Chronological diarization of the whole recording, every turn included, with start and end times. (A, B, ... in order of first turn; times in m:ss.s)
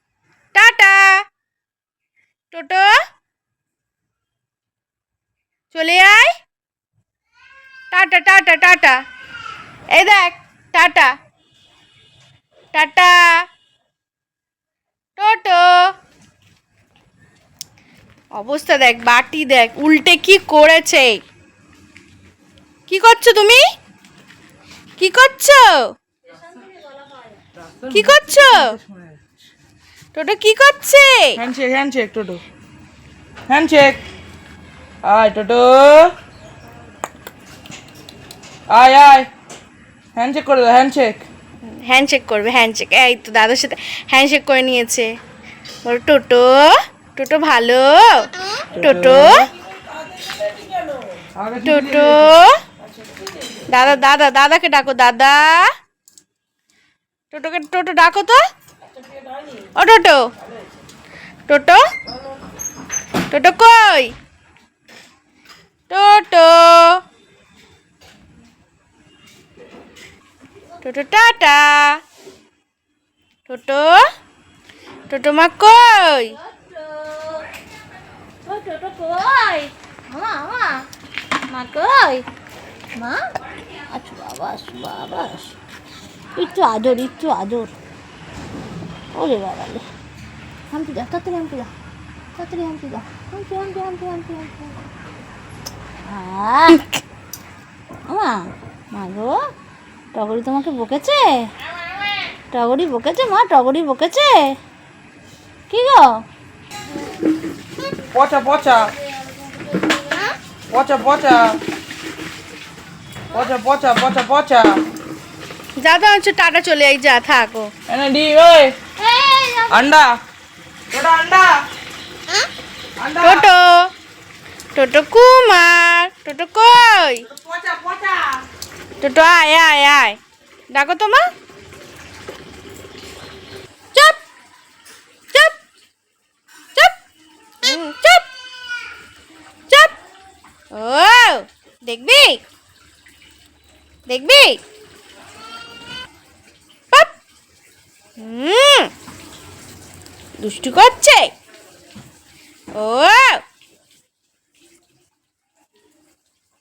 0:00.5-0:01.2 A
0:02.5-0:02.9 A
0:05.7-0:06.3 A
0:07.9-0:09.0 A
0:09.9-0:11.1 A
0:12.7-0:13.4 A
0:15.2-0:15.9 A
0:18.4-0:21.2 A
0:22.9-0:23.6 A
0:25.0-0:25.9 A
0:26.4-0:27.4 B
0:27.6-0:29.3 C
0:27.9-0:28.8 A
0:30.1-0:31.4 A
0:31.4-0:32.4 C
0:33.5-0:34.0 C
0:35.0-0:36.2 C
0:38.7-0:39.3 C
0:40.2-0:41.2 C
0:41.7-0:45.1 A
0:45.8-0:49.5 A
0:48.7-0:49.5 C
0:50.2-0:50.7 C
0:51.2-0:52.4 C
0:51.6-0:52.6 A
0:52.9-0:53.6 C
0:53.7-0:55.7 A
0:57.3-0:58.4 A
0:59.8-1:00.3 A
1:01.5-1:01.8 A
1:03.3-1:04.2 A
1:05.9-1:07.0 A
1:10.8-1:12.0 A
1:13.5-1:14.0 A
1:15.1-1:16.4 A
1:16.4-1:17.5 B
1:18.4-1:20.9 B
1:21.5-1:22.2 B
1:23.0-1:23.3 B
1:23.9-1:25.5 B
1:26.4-1:27.7 B
1:29.1-1:29.9 B
1:30.7-1:31.7 B
1:32.4-1:34.8 B
1:36.0-1:36.8 B
1:38.1-1:39.5 B
1:40.1-1:41.5 B
1:42.5-1:44.6 B
1:45.7-1:46.2 B
1:48.1-1:48.9 C
1:48.9-1:50.4 B
1:50.7-1:51.6 C
1:53.3-1:54.8 C
1:55.8-1:57.7 A
1:57.9-1:58.8 C
1:59.0-1:59.9 B
1:59.7-2:00.2 C
2:00.9-2:01.6 C
2:03.0-2:03.5 C
2:03.2-2:03.9 A
2:04.8-2:07.3 A
2:07.3-2:08.4 C
2:09.0-2:10.2 A
2:10.7-2:11.3 A
2:15.3-2:15.6 A
2:17.6-2:18.3 A
2:20.7-2:22.4 A
2:24.1-2:24.6 A
2:28.2-2:28.9 A
2:30.4-2:31.3 A
2:32.7-2:33.4 A